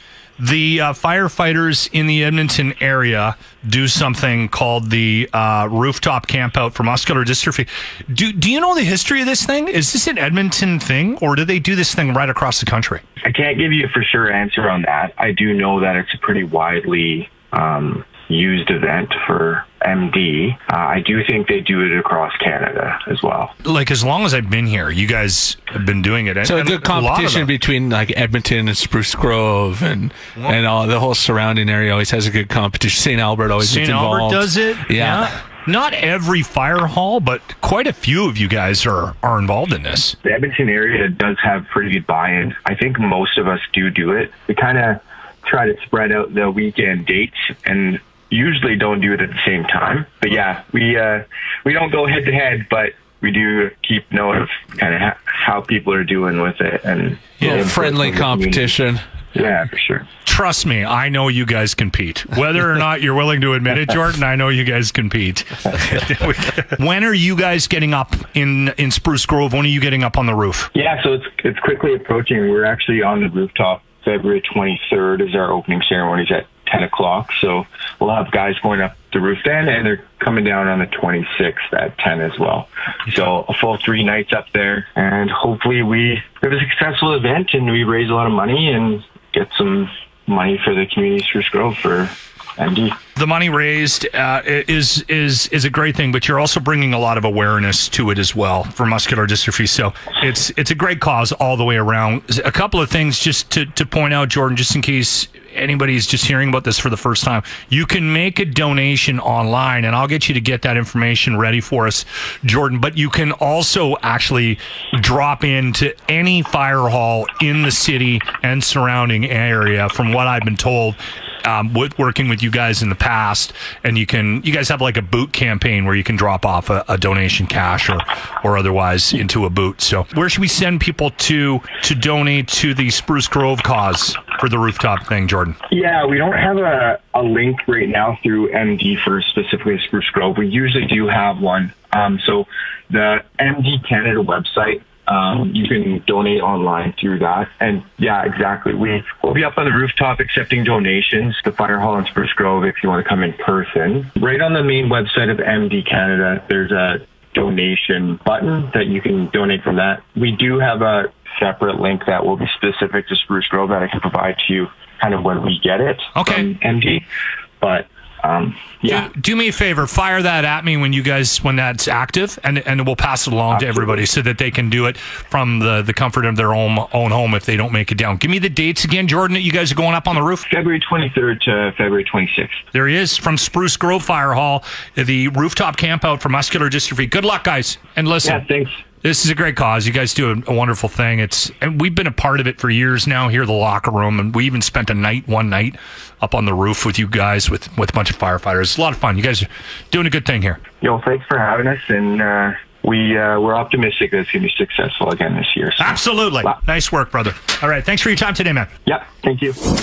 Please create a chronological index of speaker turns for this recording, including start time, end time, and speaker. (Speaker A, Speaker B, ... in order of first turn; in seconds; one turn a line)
Speaker A: 0.4-13.0
Speaker B: 13.2-23.5
Speaker A: 23.6-27.5
Speaker C: 26.4-35.3
Speaker A: 33.6-40.2
Speaker B: 40.2-58.8
Speaker C: 57.4-59.0
Speaker A: 57.4-57.7
Speaker B: 59.3-60.1
Speaker A: 60.2-70.7
Speaker B: 70.7-93.0
Speaker A: 93.2-135.6
Speaker B: 135.7-167.1
Speaker A: 166.2-166.5
Speaker B: 167.6-169.1
Speaker A: 168.9-180.4
Speaker B: 173.5-174.1
Speaker B: 180.5-182.6
Speaker A: 182.7-188.4
Speaker B: 188.2-188.7
Speaker A: 189.0-200.6
Speaker B: 200.8-206.6
Speaker A: 205.8-208.7
Speaker B: 208.9-209.6